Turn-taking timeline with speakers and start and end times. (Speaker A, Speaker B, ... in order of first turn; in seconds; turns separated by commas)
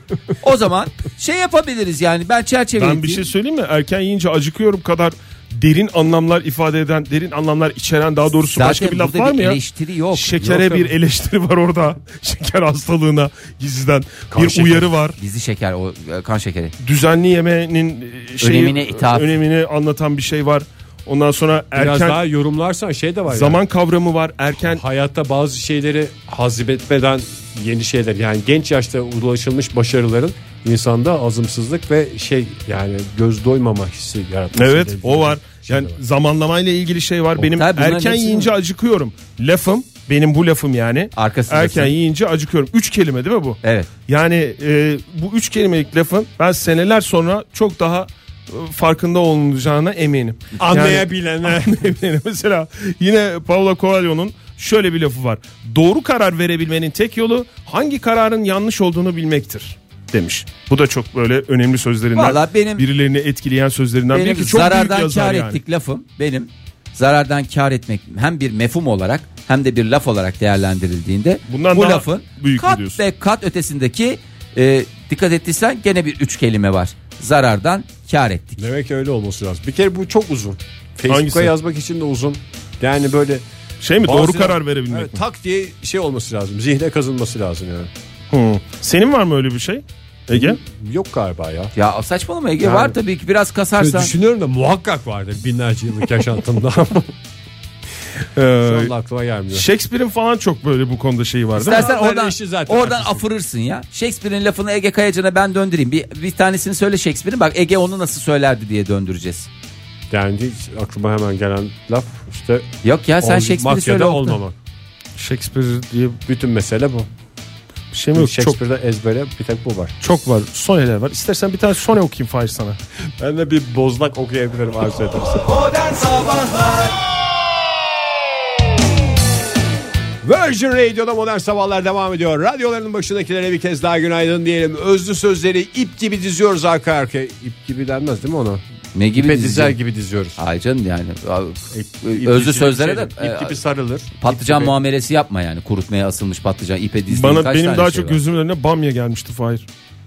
Speaker A: 0.4-3.3, Speaker B: 2.8-9.6, Speaker A: 8.5-10.4, Speaker B: 10.1-15.2, Speaker C: 10.4-10.9, Speaker C: 14.3-14.9, Speaker A: 15.2-16.7, Speaker B: 16.8-22.2, Speaker A: 18.4-19.3, Speaker C: 21.7-23.6, Speaker B: 23.3-24.8, Speaker C: 24.6-36.0, Speaker B: 34.5-65.6, Speaker A: 37.4-38.5, Speaker A: 41.1-41.9, Speaker A: 43.6-43.9, Speaker C: 50.6-51.9, Speaker A: 62.1-62.8, Speaker A: 64.1-78.6, Speaker B: 71.5-73.0, Speaker C: 78.6-83.4, Speaker B: 81.1-81.5, Speaker B: 83.8-85.2, Speaker C: 84.0-87.9, Speaker B: 88.3-90.6, Speaker C: 90.3-91.7, Speaker A: 91.8-94.1, Speaker C: 92.6-93.0, Speaker C: 93.8-97.1, Speaker B: 98.3-98.9, Speaker C: 98.6-99.7, Speaker B: 99.5-101.9, Speaker A: 101.5-109.5, Speaker C: 101.6-103.2, Speaker C: 110.1-114.6, Speaker A: 112.8-114.4, Speaker B: 115.2-116.2, Speaker C: 116.2-117.1, Speaker B: 117.9-118.6, Speaker C: 118.1-119.9, Speaker B: 120.0-122.8, Speaker C: 123.2-126.9, Speaker C: 130.2-138.6, Speaker A: 138.9-139.8, Speaker C: 139.2-140.4, Speaker A: 140.4-143.6, Speaker C: 141.7-144.7, Speaker A: 144.2-148.2, Speaker B: 147.1-149.7